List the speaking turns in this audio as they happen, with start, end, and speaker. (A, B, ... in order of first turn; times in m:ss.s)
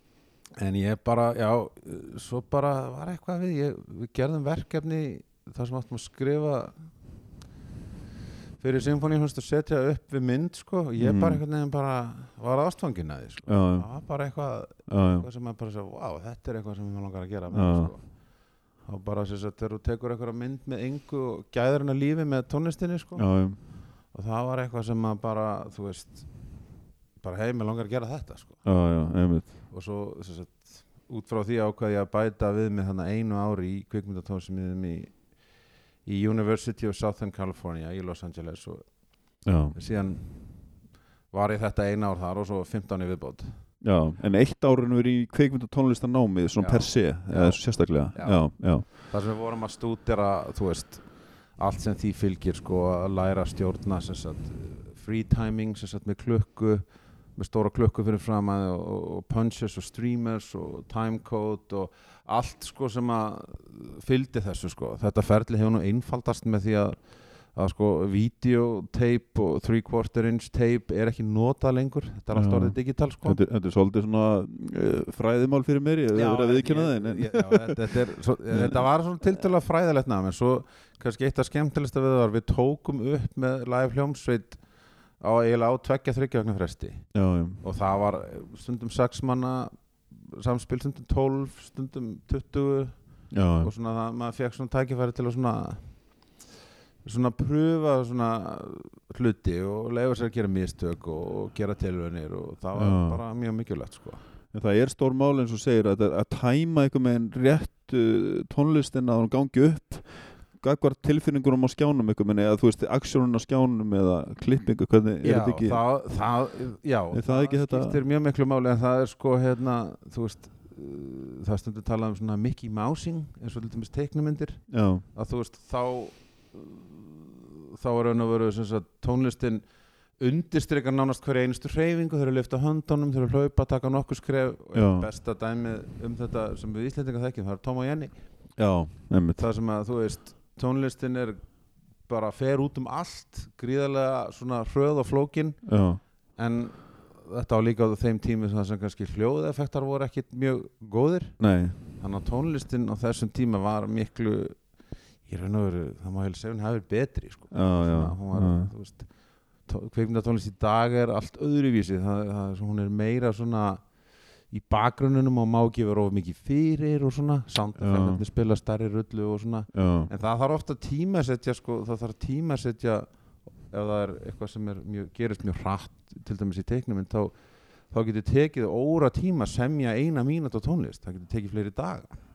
0:00.6-0:06.8 A
0:08.6-0:18.1 A
0:11.0-0:11.4 B
0:13.5-0:13.9 B
0:14.9-0:15.3 B
0:17.5-0:17.9 B
0:18.8-0:23.3 A
0:23.2-0:23.6 B
0:24.1-0:26.2 A
0:27.2-0:28.6 A
0:28.6-0:29.5 B
0:29.7-0:35.1 A
0:36.1-0:38.8 A
0:39.4-0:39.8 B
0:39.7-0:40.3 A
0:41.3-0:43.5 A
0:43.8-0:48.9 B
0:46.6-0:51.1 A
0:51.6-0:56.8 A
0:57.4-1:13.4 A
1:12.3-1:17.8 B
1:16.1-1:24.6 A
1:18.5-1:18.9 B
1:25.2-1:29.7 A
1:27.1-1:27.6 B
1:30.3-1:32.9 A
1:33.3-1:33.7 B
1:33.6-1:35.8 A
1:37.0-1:44.2 A
1:42.8-1:43.2 B
1:44.5-1:50.1 B
1:50.6-1:55.8 B
1:55.2-2:09.6 A
1:57.1-1:58.0 B
2:04.7-2:05.0 B
2:10.2-2:18.1 A
2:14.7-2:15.1 B
2:18.6-2:19.4 B
2:19.4-2:21.4 A
2:22.1-2:25.6 A
2:25.7-2:26.0 B
2:26.4-2:31.4 A
2:31.4-2:31.8 B
2:32.0-2:34.6 A
2:35.3-2:39.1 A
2:37.5-2:38.7 B
2:39.7-2:43.8 A
2:44.5-2:53.1 A
2:47.8-2:48.2 B
2:49.7-2:50.1 B
2:53.7-2:57.4 A
2:57.9-3:02.2 A